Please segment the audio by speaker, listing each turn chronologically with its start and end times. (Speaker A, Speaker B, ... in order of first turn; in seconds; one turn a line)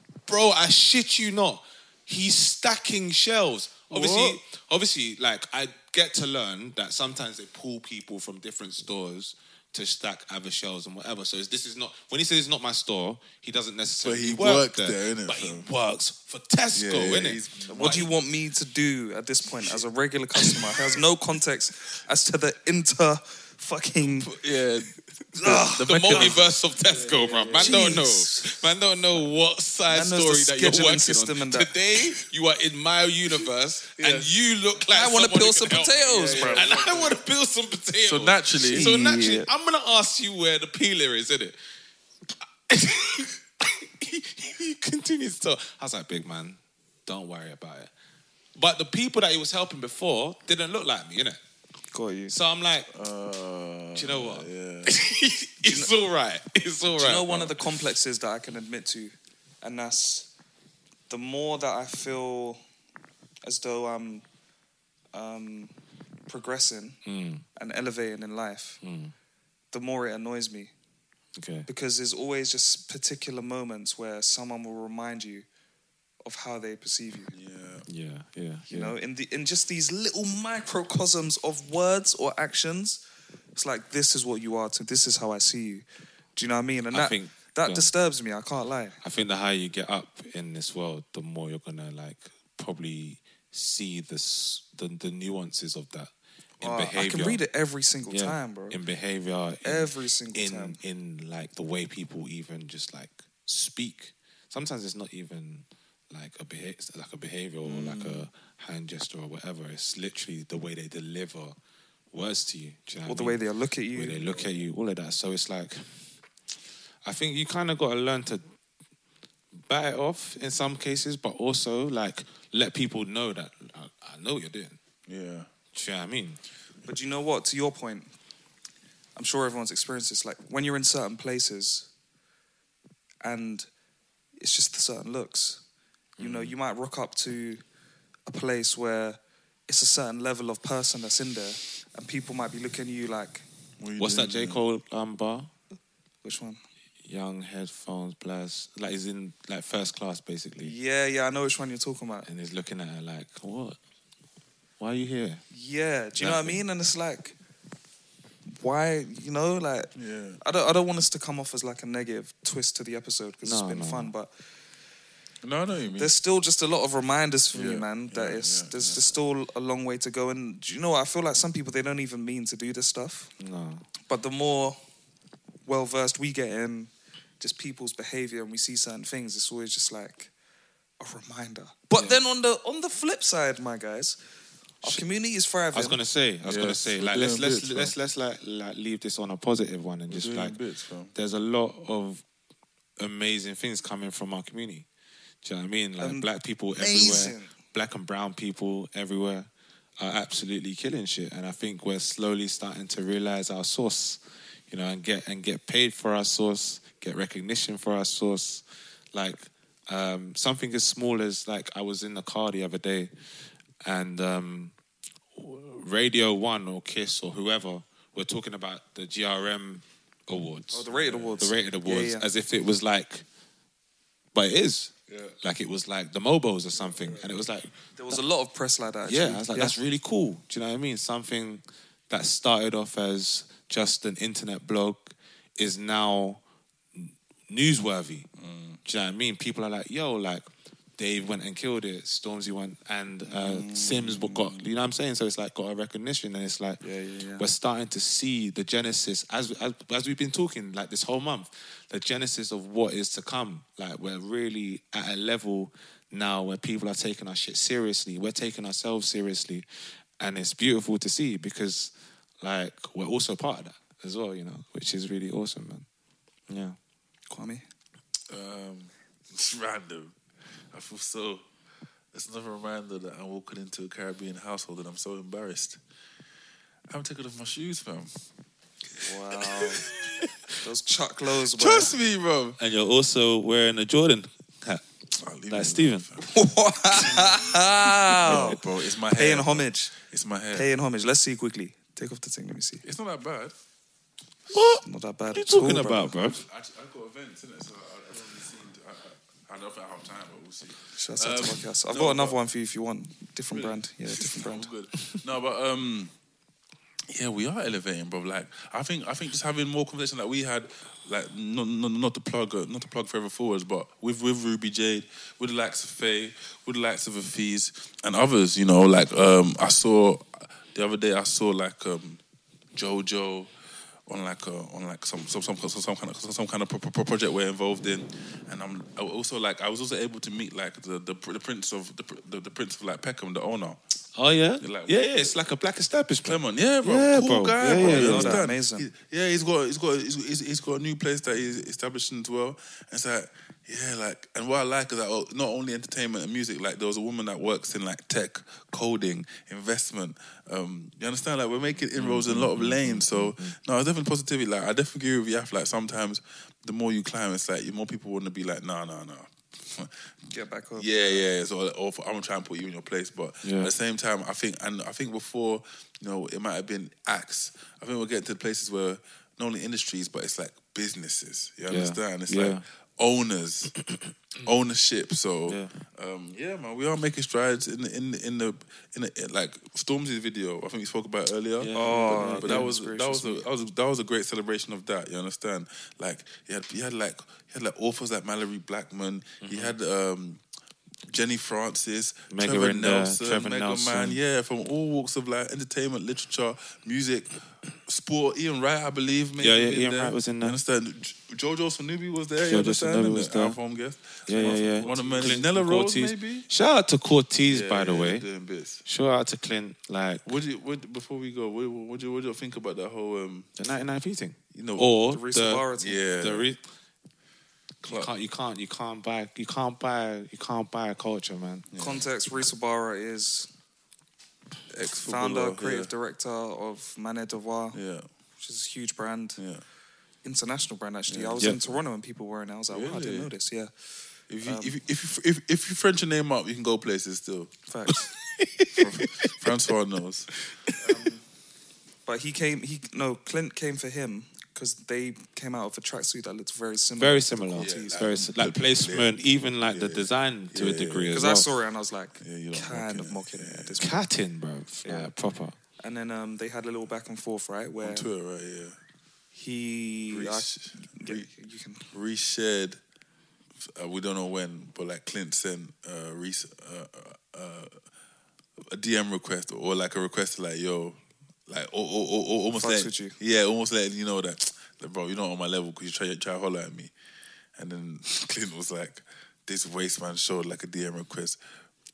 Speaker A: 0.3-18.1
Speaker B: 3.9-4.4
Speaker B: 14.0-15.7
Speaker B: 16.7-18.1
Speaker C: 17.7-24.3
Speaker B: 24.2-28.0
Speaker C: 25.4-26.4
Speaker A: 25.9-41.6
Speaker C: 27.6-28.5
Speaker C: 29.9-31.7
Speaker B: 34.0-34.3
Speaker C: 34.9-36.7
Speaker B: 36.1-37.2
Speaker B: 38.0-38.9
Speaker C: 38.7-39.5
Speaker A: 42.7-47.9
Speaker A: 48.6-51.4
Speaker C: 51.9-52.4
Speaker A: 52.3-52.9
Speaker B: 52.9-54.9
Speaker A: 54.0-57.6
Speaker C: 55.6-55.9
Speaker C: 57.0-60.3
Speaker C: 61.1-62.6
Speaker C: 63.5-64.2
Speaker C: 65.1-65.7
Speaker C: 66.3-67.0
Speaker A: 67.1-67.5
Speaker C: 67.6-68.8
Speaker A: 68.8-69.1
Speaker C: 69.7-70.7
Speaker A: 71.4-71.7
Speaker C: 71.7-75.5
Speaker C: 76.2-77.3
Speaker B: 77.3-77.9
Speaker A: 77.9-79.0
Speaker C: 78.7-83.0
Speaker C: 83.6-85.8
Speaker C: 86.4-89.0
Speaker A: 86.9-87.9
Speaker A: 89.0-97.4
Speaker C: 96.6-98.8
Speaker A: 98.1-111.6
Speaker C: 99.7-100.8
Speaker B: 107.7-108.1
Speaker A: 112.1-113.4
Speaker C: 113.0-114.5
Speaker A: 113.9-115.8
Speaker A: 117.1-118.5
Speaker A: 119.7-124.8
Speaker B: 125.1-125.5
Speaker A: 125.7-126.4
Speaker C: 126.9-128.1
Speaker C: 129.2-131.9
Speaker C: 133.2-133.7
Speaker C: 134.4-135.6
Speaker C: 136.2-137.6
Speaker C: 138.3-143.4
Speaker B: 143.8-144.6
Speaker A: 144.0-145.5
Speaker C: 146.2-146.6
Speaker A: 147.1-150.7
Speaker C: 150.6-152.3
Speaker A: 152.2-153.8
Speaker A: 154.8-155.4
Speaker C: 155.5-157.3
Speaker A: 156.2-156.6
Speaker C: 158.5-164.3
Speaker B: 160.0-160.4
Speaker A: 163.4-164.1
Speaker B: 165.4-166.1
Speaker C: 166.0-173.3
Speaker B: 167.5-169.0
Speaker A: 173.4-173.9
Speaker C: 174.1-174.8
Speaker C: 175.7-180.3
Speaker C: 181.0-184.2
Speaker C: 184.8-186.0
Speaker A: 185.7-190.6
Speaker B: 186.5-188.0
Speaker B: 190.1-191.1
Speaker A: 191.2-192.2
Speaker A: 193.0-194.9
Speaker A: 195.4-199.5
Speaker C: 196.0-197.5
Speaker A: 200.0-213.1
Speaker A: 213.8-214.7
Speaker A: 215.4-220.9
Speaker C: 220.7-222.3
Speaker B: 220.9-221.4
Speaker A: 221.4-223.2
Speaker A: 224.3-228.2
Speaker B: 225.1-225.3
Speaker B: 226.8-227.3
Speaker C: 228.0-229.8
Speaker A: 229.1-236.4
Speaker A: 236.9-238.3
Speaker B: 238.4-238.8
Speaker A: 238.9-240.5
Speaker A: 241.0-246.8
Speaker B: 243.3-244.7
Speaker B: 246.8-247.4
Speaker A: 247.4-259.7
Speaker A: 260.2-265.9
Speaker A: 266.5-266.8
Speaker C: 267.3-267.6
Speaker B: 268.3-270.1
Speaker B: 270.7-271.4
Speaker B: 272.1-275.8
Speaker B: 276.9-278.2
Speaker C: 279.0-279.9
Speaker C: 280.6-281.9
Speaker B: 281.5-282.6
Speaker A: 282.6-284.8
Speaker B: 285.2-286.3
Speaker A: 285.5-286.1
Speaker C: 286.2-288.6
Speaker B: 286.9-290.7
Speaker C: 289.1-289.9
Speaker C: 290.5-292.8
Speaker B: 292.8-293.5
Speaker A: 294.5-296.4
Speaker C: 294.5-296.1
Speaker B: 296.4-302.4
Speaker C: 301.0-304.7
Speaker B: 303.5-306.1
Speaker B: 307.1-322.2
Speaker B: 322.8-323.5
Speaker B: 324.1-333.8
Speaker A: 334.2-338.4
Speaker B: 334.6-335.4
Speaker B: 336.2-360.0
Speaker C: 337.6-338.9
Speaker A: 352.0-353.5
Speaker C: 360.3-361.3
Speaker B: 360.8-373.7
Speaker A: 363.4-363.7
Speaker A: 371.7-372.6
Speaker B: 374.4-390.4
Speaker A: 375.5-375.7
Speaker A: 381.6-382.7
Speaker C: 381.7-383.5
Speaker A: 389.4-389.8
Speaker B: 391.1-406.5
Speaker A: 392.3-394.2
Speaker A: 399.4-400.6
Speaker A: 402.5-403.6
Speaker A: 404.3-408.2
Speaker C: 404.4-405.4
Speaker B: 407.5-408.8
Speaker A: 408.9-410.3
Speaker B: 410.2-413.5
Speaker A: 413.6-415.7
Speaker B: 414.5-414.9
Speaker C: 415.1-416.0
Speaker B: 415.8-416.5
Speaker A: 416.2-416.6
Speaker B: 417.8-418.1
Speaker A: 417.8-421.7
Speaker B: 421.7-422.1
Speaker C: 421.8-423.5
Speaker B: 424.7-425.9
Speaker C: 425.0-427.8
Speaker B: 427.7-428.1
Speaker C: 428.4-429.4
Speaker C: 430.2-433.7
Speaker B: 431.1-431.7
Speaker B: 432.7-433.3
Speaker B: 434.3-437.5
Speaker C: 434.4-434.8
Speaker C: 437.7-438.1
Speaker A: 437.9-439.5
Speaker B: 438.8-441.2
Speaker C: 442.1-448.0
Speaker A: 447.0-451.5
Speaker B: 447.6-451.1
Speaker C: 451.1-454.1
Speaker B: 452.2-453.8
Speaker A: 453.8-455.6
Speaker C: 454.9-455.1
Speaker C: 455.8-458.1
Speaker B: 457.8-458.8
Speaker C: 459.3-461.9
Speaker B: 460.1-461.3
Speaker B: 461.9-462.8
Speaker B: 463.6-467.8
Speaker B: 468.7-476.9
Speaker C: 472.6-473.1
Speaker B: 477.6-481.4